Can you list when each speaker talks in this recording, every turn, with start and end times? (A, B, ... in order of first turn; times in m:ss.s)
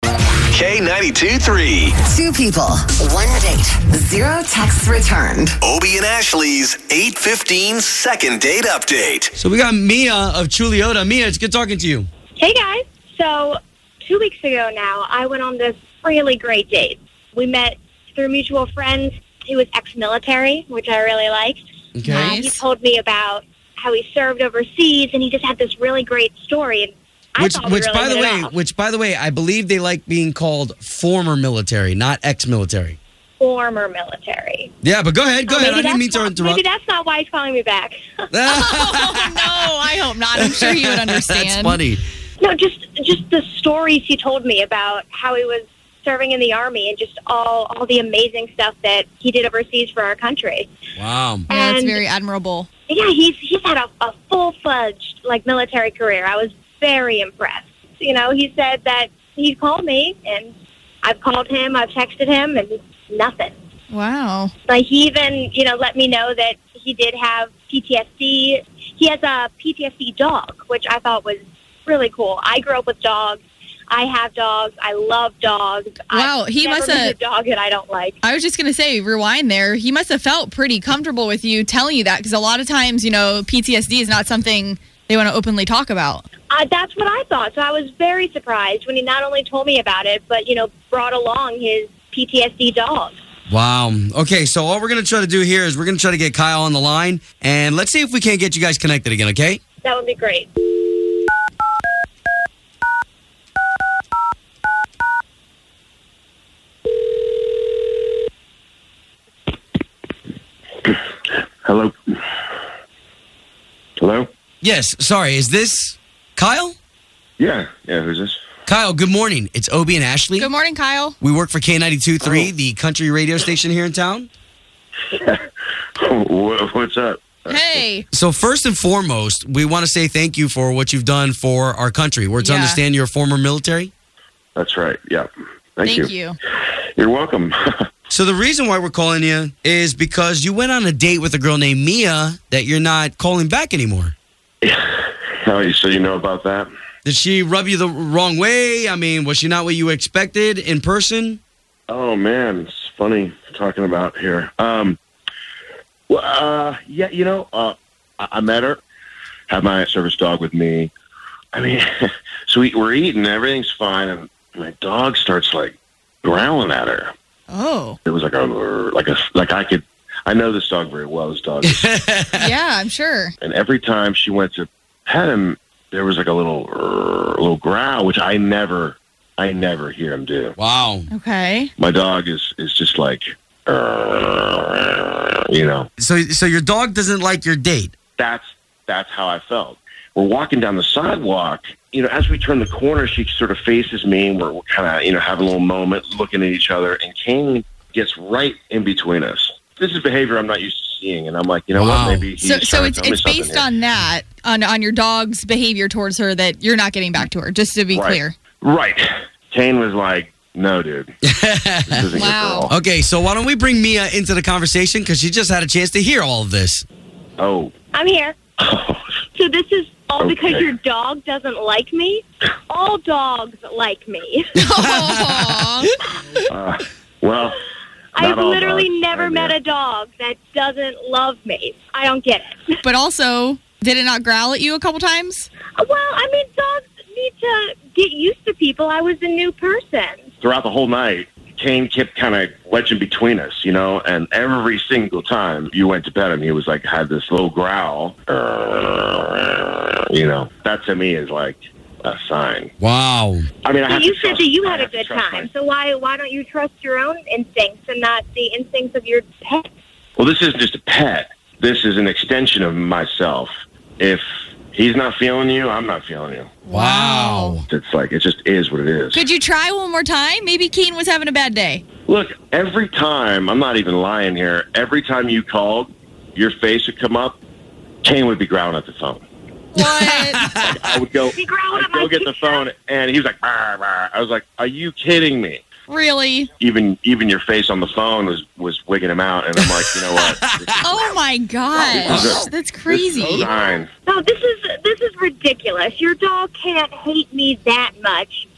0:00.5-0:02.0 A
0:02.0-0:05.6 B
0:05.6-0:09.3 A
0:09.4-0:12.1 C
0:12.4-0:28.5 D
0:22.0-0:22.3 C
0:22.0-0:22.6 E
0:27.4-0:33.0 C
0:33.4-0:34.7 D
0:34.8-0:36.6 C
0:35.5-0:38.0 D
0:38.3-0:39.7 C
0:38.4-0:41.8 E
0:40.3-0:42.0 C
0:42.4-0:50.7 D
0:51.0-0:51.5 C
0:51.5-0:52.0 D
0:51.5-0:52.7 E
0:52.9-1:00.5 D
1:01.0-1:03.5 D
1:03.9-1:04.5 E
1:04.7-1:18.2 D
1:16.1-1:17.2 E
1:18.2-1:26.2 E
1:26.5-1:33.2 D
1:33.5-1:39.6 C
1:39.8-1:40.5 D
1:51.6-1:52.2 F
1:54.0-1:54.3 F
1:54.6-1:56.7 C
1:57.4-1:58.4 F
1:58.7-2:00.5 C
2:00.4-2:01.2 E
2:01.2-2:04.3 C
2:02.2-2:02.5 F
2:05.1-2:05.4 F
2:06.0-2:07.8 F
2:07.5-2:08.1 E
2:08.1-2:13.9 C
2:12.4-2:12.8 E
2:14.6-2:16.1 F
2:15.8-2:16.4 E
2:17.0-2:17.6 F
2:18.1-2:24.1 C
2:24.6-2:26.7 F
2:27.0-2:31.4 C
2:31.9-2:35.0 F
2:36.1-2:38.8 F
2:39.5-2:40.9 F
2:41.5-2:47.1 F
2:47.5-2:48.0 E
2:48.1-2:51.9 F
2:51.7-2:52.5 C
2:52.3-2:53.3 E
2:53.4-3:00.6 F
3:00.6-3:01.1 C
3:01.1-3:01.7 E
3:01.8-3:05.9 F
3:06.0-3:07.9 C
3:08.2-3:23.7 F
3:21.8-3:22.3 C
3:22.4-3:28.4 E
3:27.9-3:31.1 F
3:31.2-3:32.1 C
3:31.9-3:32.7 F
3:32.1-3:32.7 E
3:32.7-3:36.8 C
3:37.4-3:37.7 F
3:37.9-3:38.4 D
3:38.6-3:39.1 F
3:39.4-3:44.6 D
3:40.2-3:40.7 F
3:44.6-3:46.4 E
3:44.7-3:45.9 C
3:46.5-3:47.6 F
3:48.2-3:49.6 F
3:48.2-3:52.8 D
3:52.8-3:55.5 E
3:55.8-4:00.3 D
4:00.4-4:12.7 F
4:12.8-4:13.5 C
4:13.6-4:15.5 F
4:13.9-4:19.7 D
4:20.2-4:26.5 F
4:26.7-4:27.6 E
4:26.7-4:27.6 C
4:27.7-4:29.2 F
4:29.1-4:31.8 E
4:32.1-4:37.4 F
4:38.0-4:39.2 F
4:39.7-4:40.4 E
4:39.8-4:40.9 C
4:40.6-4:45.6 F
4:41.3-4:42.6 D
4:45.9-4:46.5 E
4:46.6-4:51.2 F
4:49.6-4:50.8 C
4:50.8-4:53.5 E
4:51.7-4:53.9 F
4:53.2-4:58.5 D